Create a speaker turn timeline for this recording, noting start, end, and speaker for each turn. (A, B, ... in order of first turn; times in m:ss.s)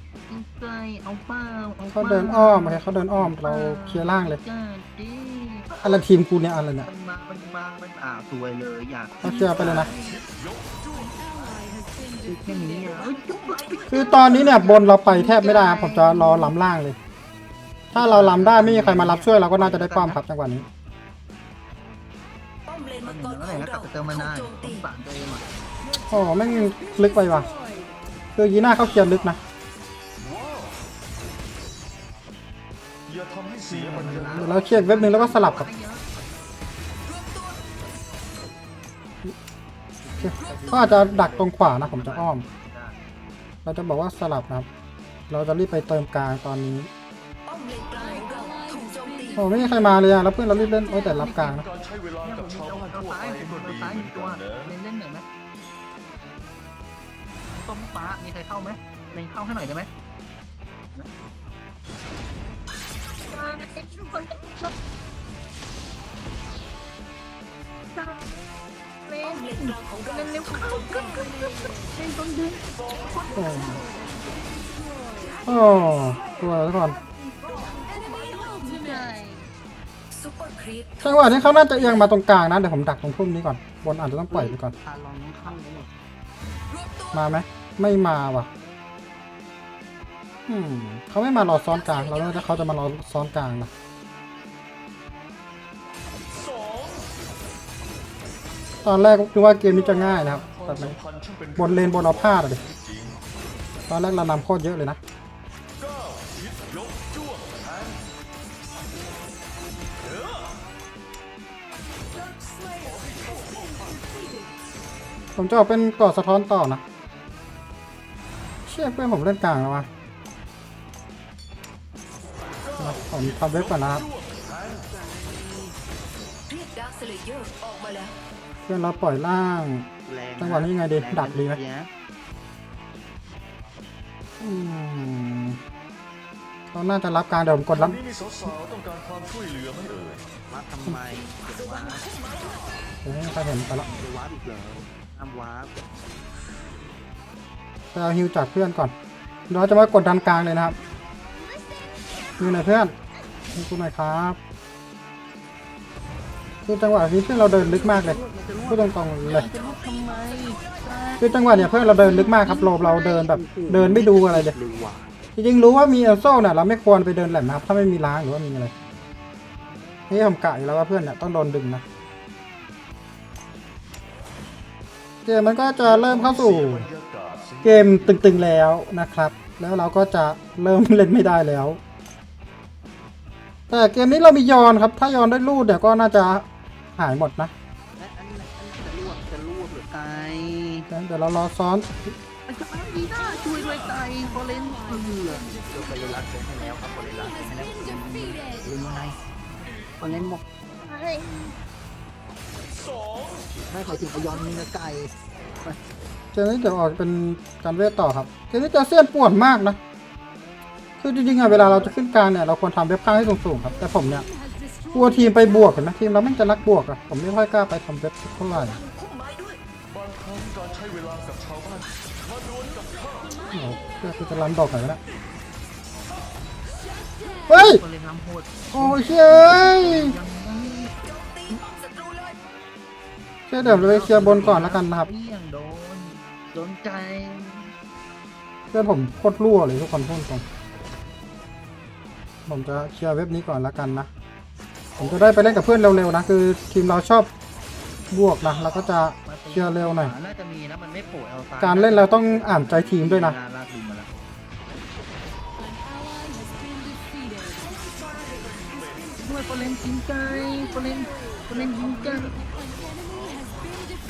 0:00.2-0:06.0 A
0:01.9-0:04.4 B
0:05.8-0:06.9 B
0:06.8-0:10.2 A
0:09.2-0:09.9 B
0:09.8-0:11.6 C
0:12.2-0:16.5 A
0:12.9-0:14.8 D
0:13.9-0:17.0 B
0:17.9-0:20.7 B
0:18.0-0:20.2 A
0:22.7-0:24.8 D
0:23.0-0:25.5 A
0:26.0-0:27.5 B
0:28.4-0:29.4 B
0:30.2-0:30.8 C
0:33.1-0:34.7 C
0:33.7-0:36.1 A
0:34.2-0:35.7 B
0:40.0-0:43.0 A
0:40.2-0:42.4 B
0:43.6-0:44.7 B
0:45.3-0:46.9 B
0:47.5-0:49.4 D
0:49.4-0:51.7 B
0:50.8-0:51.6 A
0:51.5-0:54.8 C
0:52.2-0:55.3 A
0:57.6-0:59.9 A
1:03.3-1:04.7 A
1:09.0-1:13.8 A
1:09.2-1:11.3 D
1:13.3-1:13.8 B
1:15.4-1:17.0 B
1:17.1-1:19.5 A
1:17.5-1:18.9 D
1:20.1-1:21.9 D
1:21.0-1:24.8 B
1:24.3-1:25.9 A
1:27.1-1:28.5 B
1:30.5-1:33.7 B
1:31.5-1:32.7 D
1:36.4-1:37.1 C
1:38.8-1:41.0 B
1:39.6-1:43.2 C
1:41.6-1:42.6 B
1:43.9-1:45.0 B
1:45.8-1:48.0 C
1:50.0-1:50.5 C
1:52.8-1:54.1 C
1:55.4-1:56.8 B
1:58.7-1:59.9 B
2:02.7-2:04.9 C
2:02.8-2:04.0 B
2:04.7-2:05.8 A
2:06.5-2:08.2 D
2:08.7-2:11.6 B
2:10.0-2:11.9 A
2:14.4-2:15.6 B
2:16.7-2:18.0 B
2:17.7-2:20.3 C
2:20.5-2:22.2 A
2:21.9-2:22.6 D
2:23.0-2:23.9 B
2:23.5-2:25.9 A
2:27.9-2:28.9 B
2:29.5-2:30.8 B
2:32.4-2:32.9 B
2:33.5-2:34.4 B
2:36.6-2:39.5 B
2:37.3-2:45.1 A
2:41.2-2:44.6 B
2:45.4-2:48.7 B
2:50.1-2:51.8 B
2:55.2-2:56.9 B
2:55.8-2:58.5 C
2:57.6-3:01.8 B
3:03.7-3:07.5 B
3:08.0-3:10.9 A
3:10.9-3:12.1 B
3:12.5-3:19.2 A
3:20.0-3:21.5 A
3:23.7-3:25.8 A
3:26.3-3:29.8 B
3:31.0-3:34.3 B
3:31.4-3:32.0 A
3:34.9-3:38.8 B
3:38.5-3:39.6 D
3:39.9-3:43.4 C
3:43.5-3:45.0 B
3:47.5-3:50.9 A
3:47.5-3:47.8 B
3:48.7-3:50.1 B
3:51.0-3:52.4 D
3:53.5-3:55.1 B
3:53.6-3:57.7 A
3:58.7-4:00.4 B
4:02.5-4:04.1 B
4:05.0-4:07.3 B
4:08.1-4:10.1 B
4:09.3-4:14.1 A
4:11.6-4:13.4 B
4:18.0-4:18.6 D
4:18.6-4:19.1 C
4:19.2-4:22.4 A